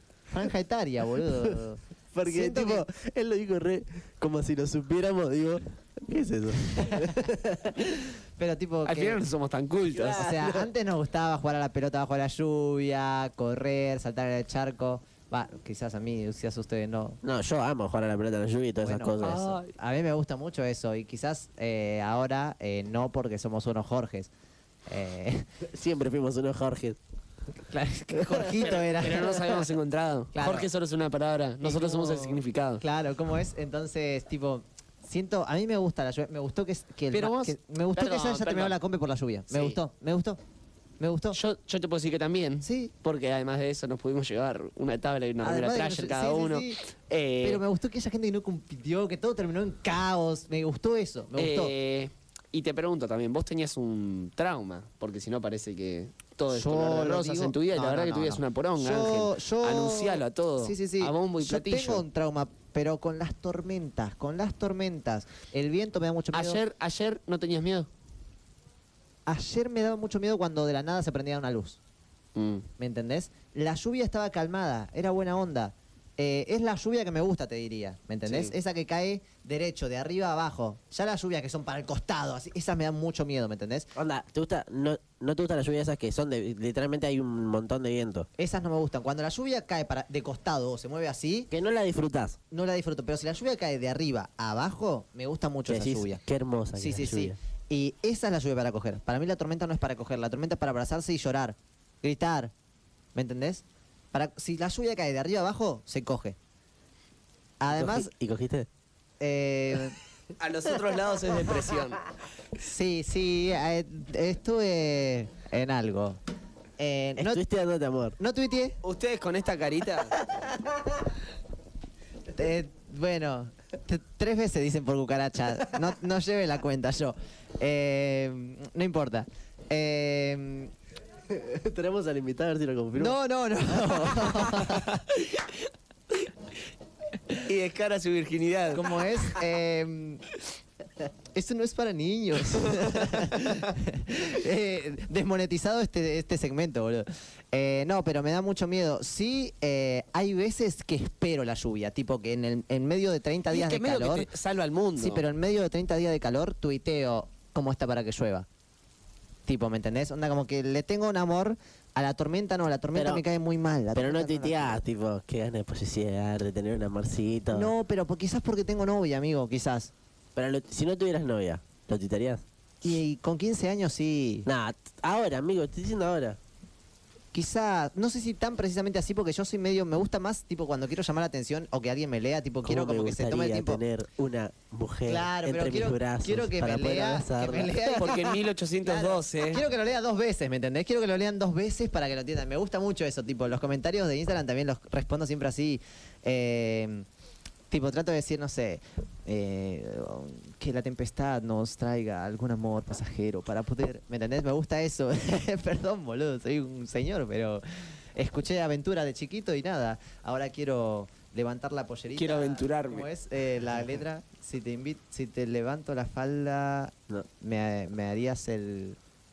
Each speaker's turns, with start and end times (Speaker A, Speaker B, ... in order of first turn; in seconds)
Speaker A: 0.3-2.9, 8.0-9.2, 10.1-17.2, 18.8-24.3, 24.9-25.4, 27.7-29.7, 30.3-30.7, 31.6-40.4, 41.0-41.4, 42.6-42.9, 45.4-46.8, 47.4-51.7, 56.5-66.6, 69.2-71.8, 72.8-83.9, 88.4-91.5, 92.5-96.2, 96.8-102.5, 103.1-106.3, 107.6-108.1, 109.2-110.0, 112.6-116.2, 116.8-117.4, 118.2-118.8, 122.3-130.7, 133.0-135.0, 138.7-140.2, 141.3-154.3, 154.9-158.4, 159.5-164.8, 167.5-169.9, 172.8-174.5, 177.3-183.8, 185.1-188.3, 188.8-197.1, 197.7-207.6, 208.2-219.0
Speaker B: 2.1-7.8, 9.9-10.7, 17.2-19.4, 25.7-27.0, 84.0-88.3, 91.5-92.4, 95.7-97.3, 107.7-108.7, 117.2-118.2, 131.3-133.2, 162.9-163.2, 163.9-167.7, 170.3-172.4, 174.4-176.4, 182.6-188.2
Speaker C: 8.8-10.2, 19.2-19.7, 27.7-32.8, 37.1-38.8, 39.5-39.8, 41.3-47.6, 51.4-62.0, 66.3-67.9, 72.3-72.7, 78.2-78.5, 110.4-112.0, 118.8-120.2, 135.1-135.6, 137.4-139.4, 142.6-142.9, 153.5-155.2, 187.9-189.6, 212.1-213.1